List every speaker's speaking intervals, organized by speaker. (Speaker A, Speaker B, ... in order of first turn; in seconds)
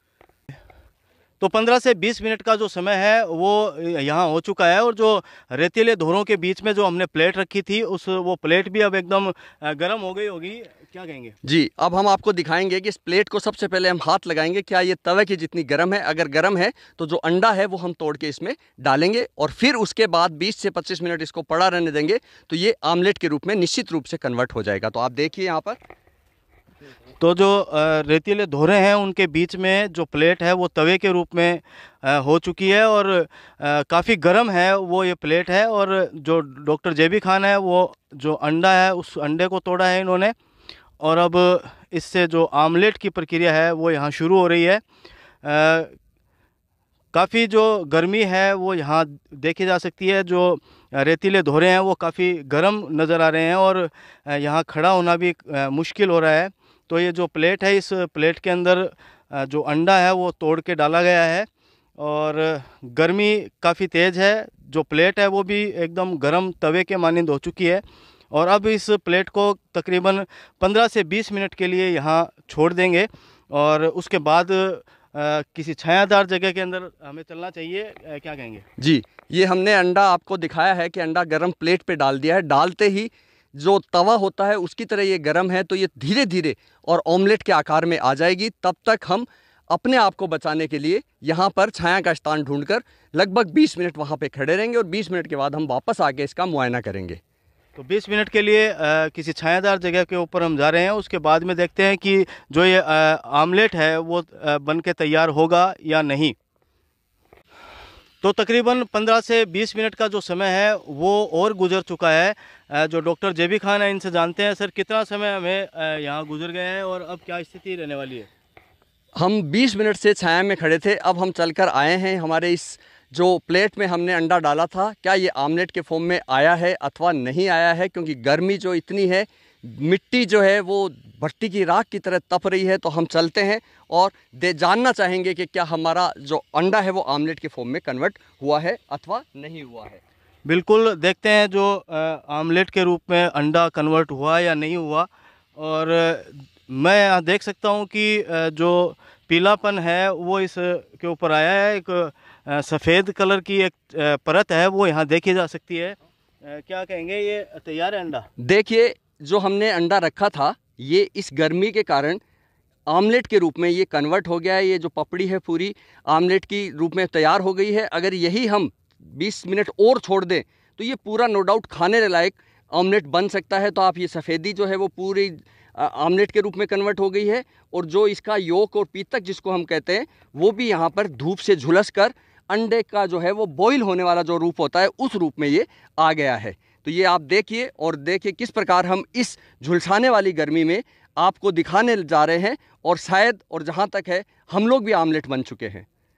Speaker A: 1.4-11.3, 27.2-40.3, 41.0-44.8, 45.4-45.9, 47.1-61.5, 62.0-78.6, 97.8-106.3, 108.2-118.3, 140.4-158.3
Speaker B: 11.4-25.8, 78.8-97.2, 119.2-140.0, 158.4-162.2, 162.9-195.8